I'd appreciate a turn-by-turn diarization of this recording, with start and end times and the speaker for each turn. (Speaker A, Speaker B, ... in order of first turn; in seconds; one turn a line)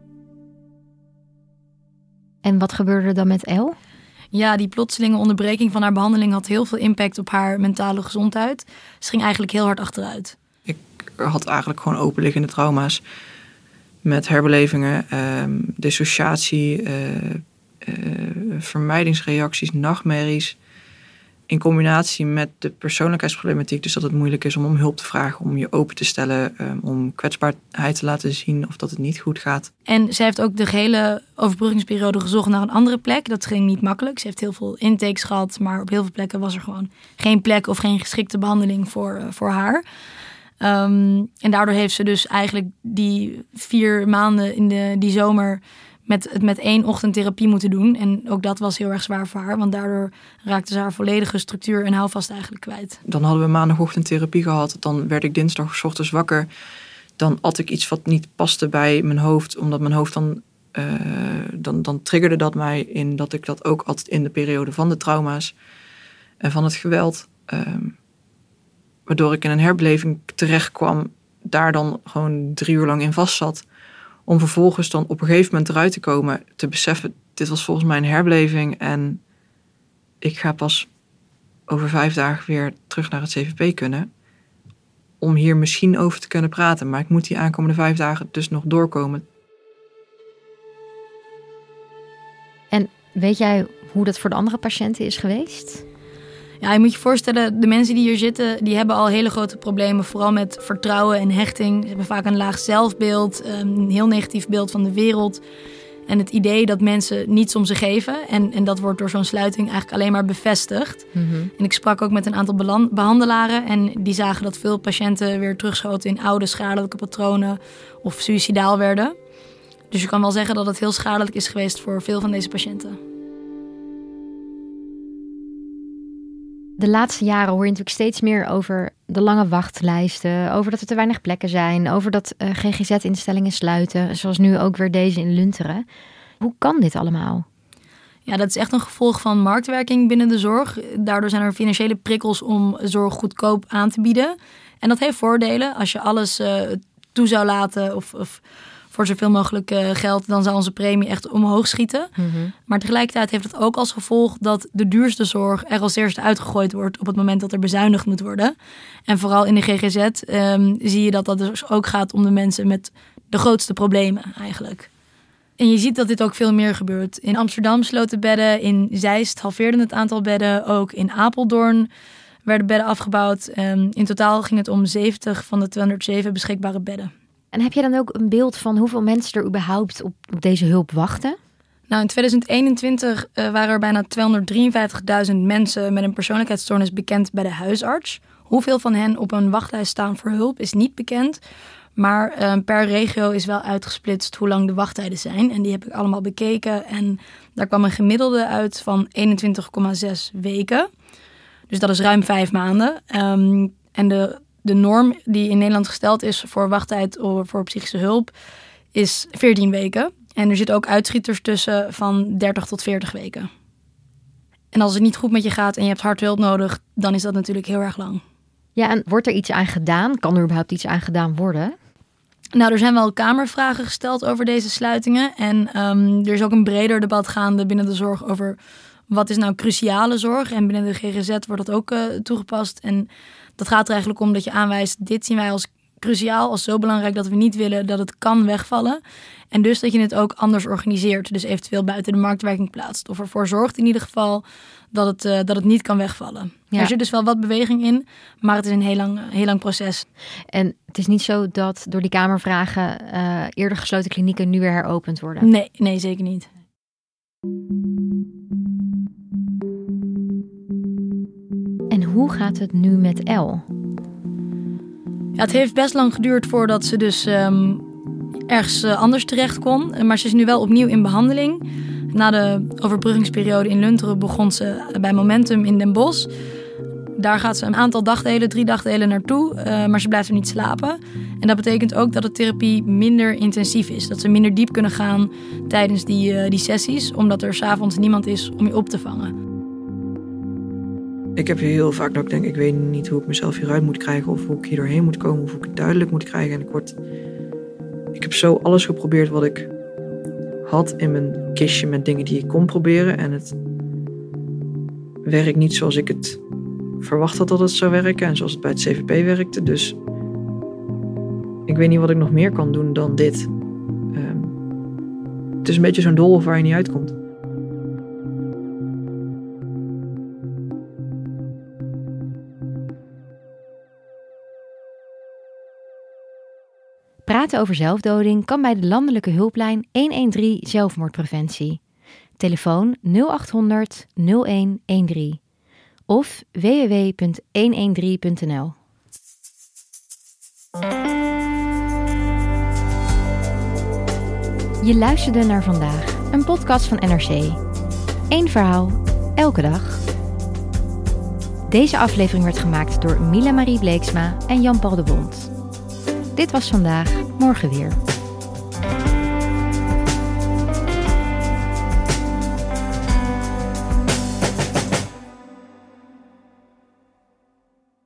Speaker A: 2.4-3.8
Speaker B: 4.3-10.3
Speaker C: 10.7-13.0
Speaker C: 14.0-20.6
Speaker C: 21.5-29.7
Speaker B: 29.9-39.8
Speaker B: 40.6-53.0
Speaker C: 53.1-56.5
Speaker C: 57.2-65.5
Speaker C: 66.4-67.9
Speaker C: 69.1-73.6
Speaker C: 74.3-79.2
Speaker C: 80.2-80.9
Speaker C: 81.7-84.1
Speaker C: 85.2-89.2
Speaker A: 92.7-95.8
Speaker B: 96.6-105.4
Speaker B: 106.1-111.0
Speaker A: 111.1-111.5
Speaker B: 111.6-119.1
Speaker B: 119.9-123.0
Speaker A: 126.8-135.8
Speaker A: 136.4-137.4
Speaker B: 138.2-152.1
Speaker A: 152.2-152.5
Speaker B: 152.7-158.5
Speaker B: 159.1-164.9
Speaker B: 165.6-171.9
Speaker B: 172.4-177.1
Speaker A: 177.5-181.3
Speaker B: 181.9-191.4
Speaker B: 191.9-200.9
Speaker B: 201.7-208.3
Speaker B: 208.9-213.5
Speaker B: 214.7-218.2
Speaker A: 218.8-221.7
Speaker B: 222.5-250.1
Speaker A: 250.5-255.5
Speaker B: 255.4-256.5
Speaker A: 261.9-263.6
Speaker B: 265.4-267.8
Speaker B: 268.5-276.3
Speaker B: 277.1-289.3
Speaker C: 291.4-296.9
Speaker C: 298.1-299.7
Speaker C: 300.6-303.6
Speaker C: 305.2-306.4
Speaker C: 307.0-310.0
Speaker C: 311.7-313.5
Speaker C: 314.1-314.6
Speaker C: 315.6-317.1
Speaker A: 327.2-331.8
Speaker A: 332.4-335.4
Speaker A: 336.1-338.7
Speaker A: 344.8-347.6
Speaker A: 348.3-350.0
Speaker A: 351.7-355.5
Speaker A: 356.3-358.0